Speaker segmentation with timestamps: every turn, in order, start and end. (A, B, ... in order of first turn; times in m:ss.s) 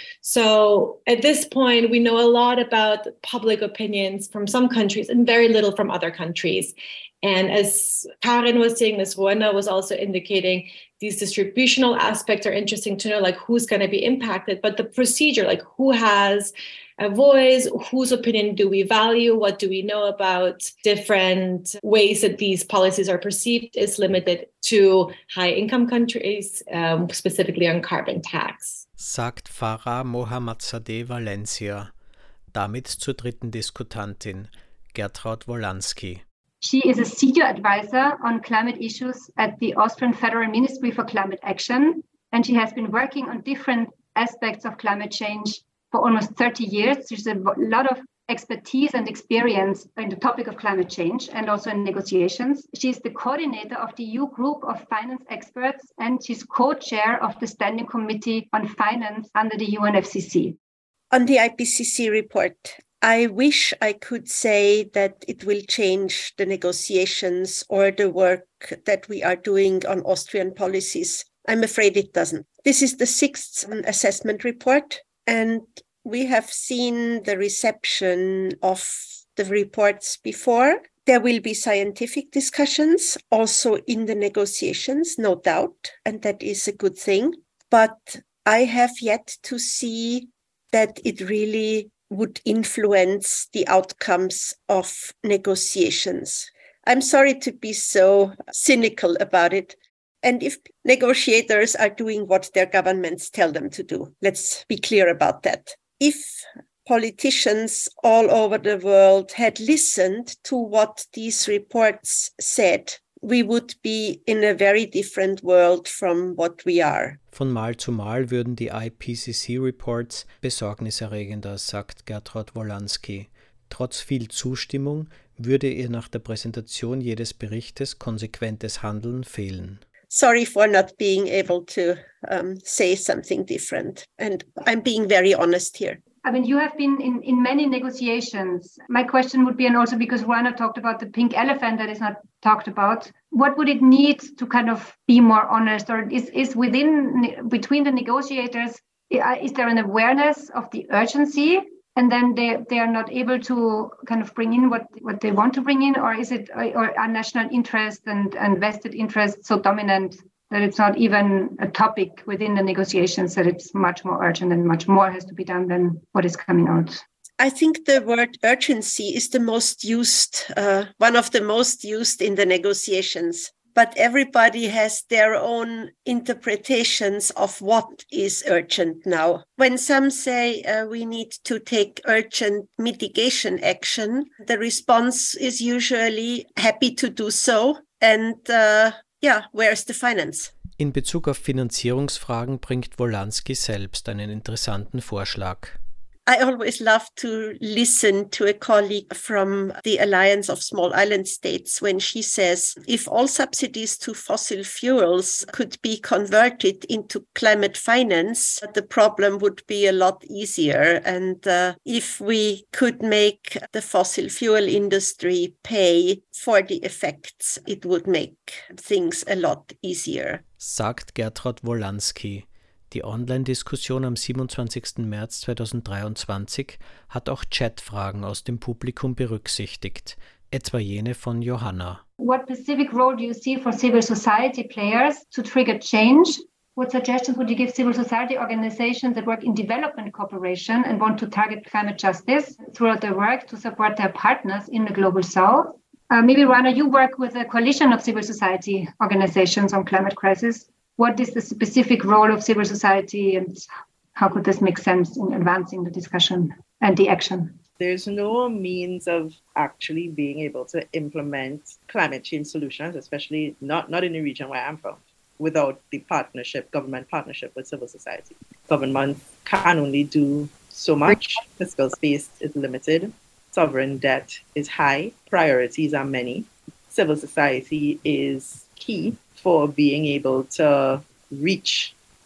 0:00.2-0:28.8 A
0:29.0-0:31.9 B
0:32.5-0:36.2 B
0:36.6-1:00.6 C
1:01.1-1:57.2 D
1:57.3-2:09.8 B
2:10.1-2:16.0 D
2:16.2-2:47.0 C
2:47.4-3:10.5 D
3:10.8-3:15.8 B
3:16.3-3:40.4 D
3:40.6-3:52.0 B
3:52.2-4:17.6 C
4:17.8-4:42.0 E